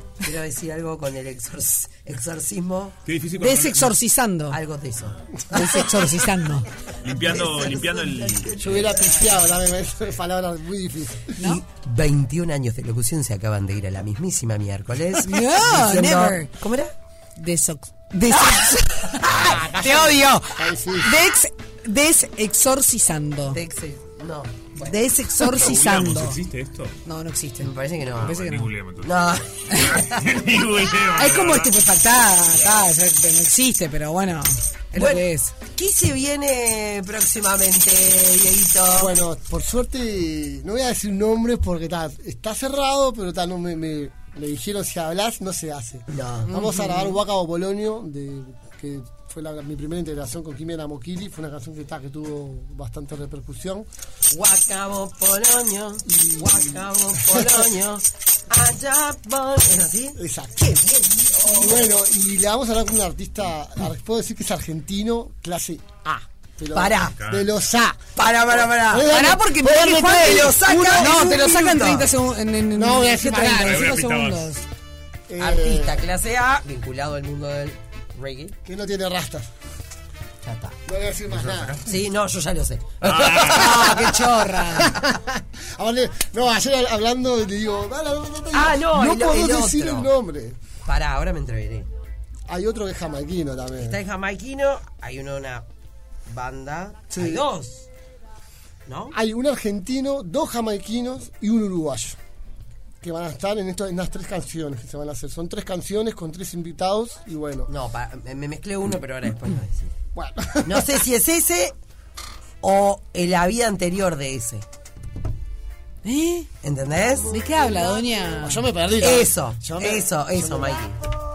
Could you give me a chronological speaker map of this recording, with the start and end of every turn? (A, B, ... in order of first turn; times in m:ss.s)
0:00.2-0:03.0 A
0:03.0-0:04.0 B
0:03.4-0:04.6 C
0:04.5-0:05.2 A
0:05.5-0:06.7 C
0:05.5-0:05.9 D
0:07.0-0:09.0 B
0:07.3-0:08.4 A
0:08.6-0:11.4 D
0:11.4-0:11.6 C
0:11.4-0:16.9 A
0:15.2-0:16.5 C
0:17.4-0:23.6 C
0:19.2-0:21.3 D
0:23.5-0:25.0 A
0:24.8-0:26.4 C
0:25.5-0:26.9 B
0:27.0-0:28.7 C
0:27.6-0:28.3 A
0:28.1-0:31.7 B
0:29.0-0:30.2 A
0:29.7-0:30.0 C
0:31.2-0:35.6 C
0:34.9-0:39.2 A
0:38.9-0:53.9 D
0:46.1-0:46.6 A
0:46.5-0:47.2 C
0:54.3-1:02.0 A
0:56.1-0:57.7 D
1:00.2-1:00.7 D
1:01.4-1:08.0 D
1:06.7-1:07.2 A
1:07.2-1:07.5 B
1:08.2-1:09.1 A
1:08.8-1:10.6 D
1:09.1-1:14.6 C
1:10.3-1:12.1 A
1:12.8-1:13.9 D
1:13.6-1:14.5 B
1:15.3-1:16.0 D
1:15.4-1:18.6 A
1:18.6-1:19.5 D
1:20.4-1:20.8 A
1:20.9-1:21.8 D
1:21.3-1:21.8 B
1:21.9-1:23.4 A
1:23.0-1:23.9 B
1:23.4-1:30.6 D
1:23.5-1:25.0 C
1:28.5-1:30.1 A
1:30.8-1:31.9 A
1:32.5-1:34.0 D
1:33.8-1:35.7 A
1:36.3-1:37.9 A
1:37.1-1:37.5 D
1:38.9-1:39.2 A
1:39.1-1:42.2 D
1:43.0-1:47.7 D
1:47.7-1:50.0 A
1:50.2-1:51.0 D
1:50.6-1:51.7 A
1:52.6-1:54.6 A
1:56.0-1:56.5 C
1:56.6-1:57.4 A
1:57.3-1:58.7 C
1:57.6-2:00.8 D
1:59.0-2:01.0 A